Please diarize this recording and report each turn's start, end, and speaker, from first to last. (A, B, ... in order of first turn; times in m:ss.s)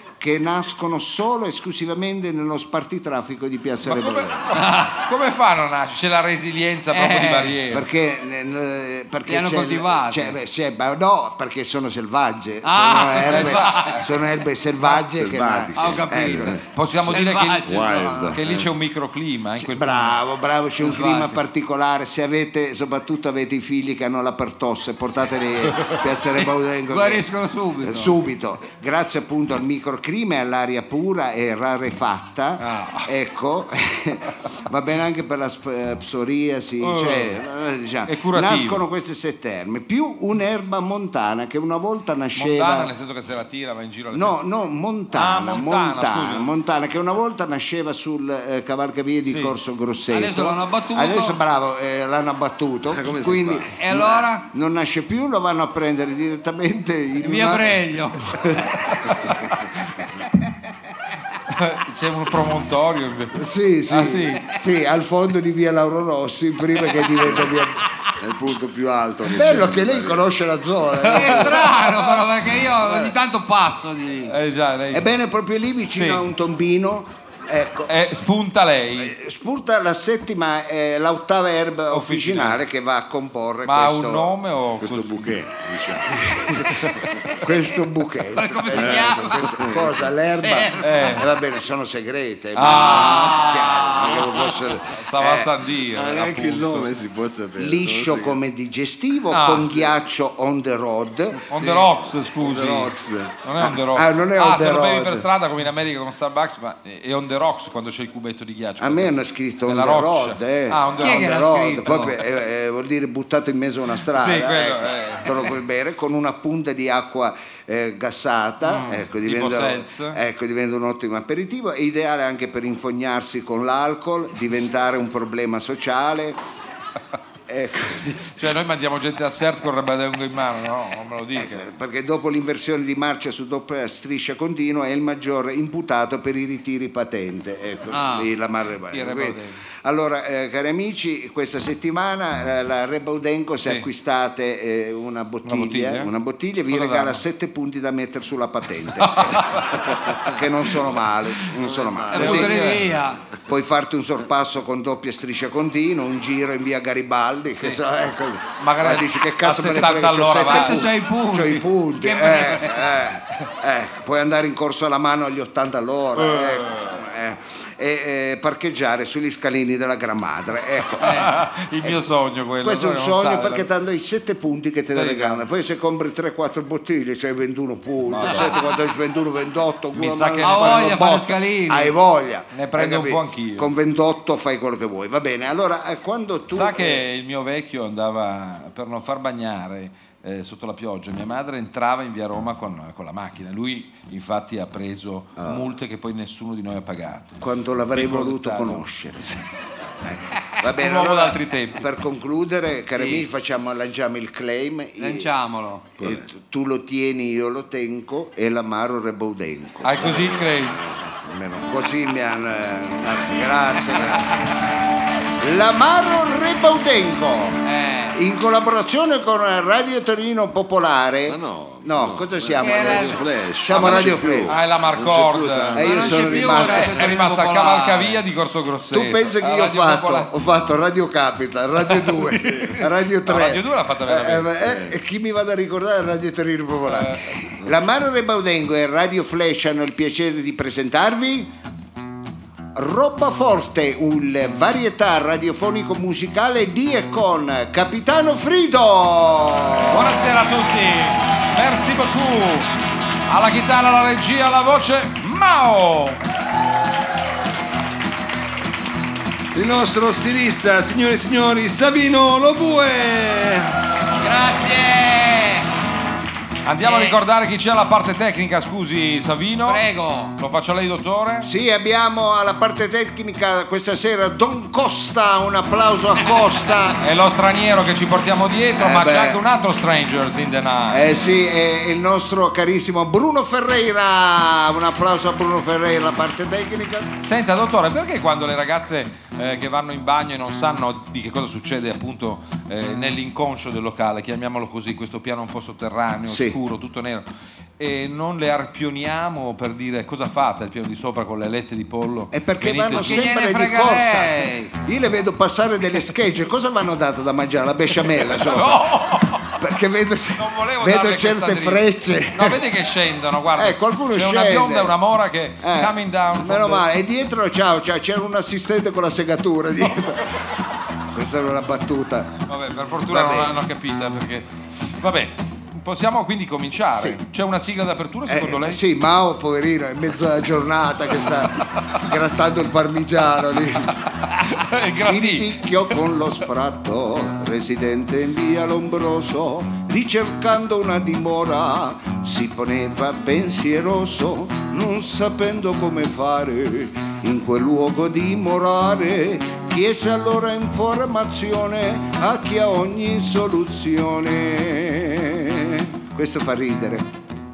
0:00.2-0:04.5 A
0:03.8-0:07.9 B
0:04.6-0:05.0 C
0:06.9-0:07.6 C
0:07.7-0:16.6 A
0:09.3-0:10.4 C
0:12.6-0:13.9 C
0:13.2-0:14.1 B
0:14.8-0:16.6 D
0:15.8-0:18.3 C
0:16.7-0:20.2 B
0:17.6-0:18.7 D
0:19.6-0:27.3 A
0:20.8-0:21.4 C
0:26.9-0:28.1 C
0:27.8-0:42.9 A
0:32.6-0:33.1 B
0:36.8-0:37.4 B
0:38.1-0:38.8 B
0:42.4-0:44.4 B
0:44.1-0:58.6 A
0:45.1-0:46.5 B
0:49.3-0:49.6 B
0:50.1-0:51.4 C
0:52.9-0:53.8 D
0:53.7-0:54.5 C
0:57.2-0:58.6 C
1:01.5-1:04.5 B
1:03.3-1:07.9 A
1:07.2-1:07.6 D
1:08.2-1:10.3 D
1:09.2-1:11.8 A
1:11.0-1:12.2 B
1:11.0-1:14.4 C
1:14.3-1:15.1 B
1:14.9-1:17.9 A
1:15.9-1:16.2 B
1:17.9-1:19.1 B
1:19.0-1:24.3 A
1:21.9-1:22.6 B
1:23.6-1:25.4 B
1:24.8-1:26.3 D
1:26.1-1:35.5 A
1:28.3-1:29.4 C
1:28.7-1:30.1 D
1:30.4-1:31.2 C
1:30.8-1:31.3 B
1:32.6-1:33.5 B
1:33.1-1:34.2 C
1:34.8-1:36.9 B
1:35.9-1:38.4 D
1:37.6-1:41.5 A
1:39.3-1:39.9 B
1:41.5-1:42.9 B
1:42.4-1:43.4 D
1:43.4-1:52.2 B
1:43.6-1:45.3 A
1:48.8-2:06.4 A
1:51.0-1:52.1 C
1:54.2-1:55.4 B
1:58.6-2:00.2 B
2:07.5-2:08.4 A
2:08.4-2:11.6 B
2:11.3-2:29.7 A
2:17.9-2:18.3 C
2:18.9-2:19.6 B
2:25.4-2:26.1 B
2:26.7-2:27.2 B
2:29.0-2:29.9 B
2:30.2-2:32.8 A
2:31.6-2:32.4 D
2:32.1-2:33.2 C
2:32.1-2:32.9 B
2:33.4-2:51.3 A
2:37.5-2:37.8 B
2:38.6-2:40.9 B
2:40.4-2:42.9 C
2:46.2-2:46.9 B
2:51.0-2:53.7 B
2:52.6-3:07.0 A
2:54.9-2:55.4 B
2:58.1-2:58.6 B
2:59.9-3:01.0 B
3:00.4-3:02.0 C
3:02.5-3:03.7 B
3:06.5-3:17.4 B
3:15.4-3:15.7 A
3:17.4-3:19.4 A
3:17.9-3:19.4 B
3:20.0-3:25.3 A
3:20.8-3:21.8 B
3:22.9-3:23.2 C
3:25.0-3:25.9 C
3:26.0-3:30.3 A
3:26.0-3:26.2 D
3:29.8-3:30.8 B
3:30.0-3:31.1 D
3:31.1-3:34.3 A
3:35.4-3:44.6 A
3:37.6-3:38.2 C
3:41.3-3:46.7 D
3:42.6-3:43.2 C
3:43.7-3:50.3 B
3:45.8-3:47.0 A
3:45.8-3:48.2 C
3:48.9-4:01.5 A
3:51.8-3:54.5 B
3:54.6-3:54.9 D
3:56.9-3:57.4 B
4:02.8-4:10.3 A
4:09.9-4:12.7 B
4:13.3-4:16.2 B
4:19.5-4:23.7 D
4:24.2-4:25.7 C
4:26.6-4:31.5 B
4:26.8-4:27.2 C
4:29.6-4:30.4 C
4:31.4-4:37.0 A
4:37.0-4:41.1 B
4:38.8-4:39.4 A
4:40.9-4:47.2 A
4:47.2-4:57.3 B
4:56.3-4:56.6 A
4:57.8-5:03.3 B
5:02.3-5:08.9 A
5:03.0-5:04.7 C
5:08.2-5:09.6 B
5:09.6-5:12.6 A
5:10.4-5:16.9 B
5:13.6-5:15.0 A
5:15.6-5:20.2 A
5:21.1-5:22.3 A
5:22.5-5:28.8 B
5:23.1-5:23.6 A
5:28.3-5:34.0 A
5:34.3-5:35.6 B
5:34.9-5:57.1 A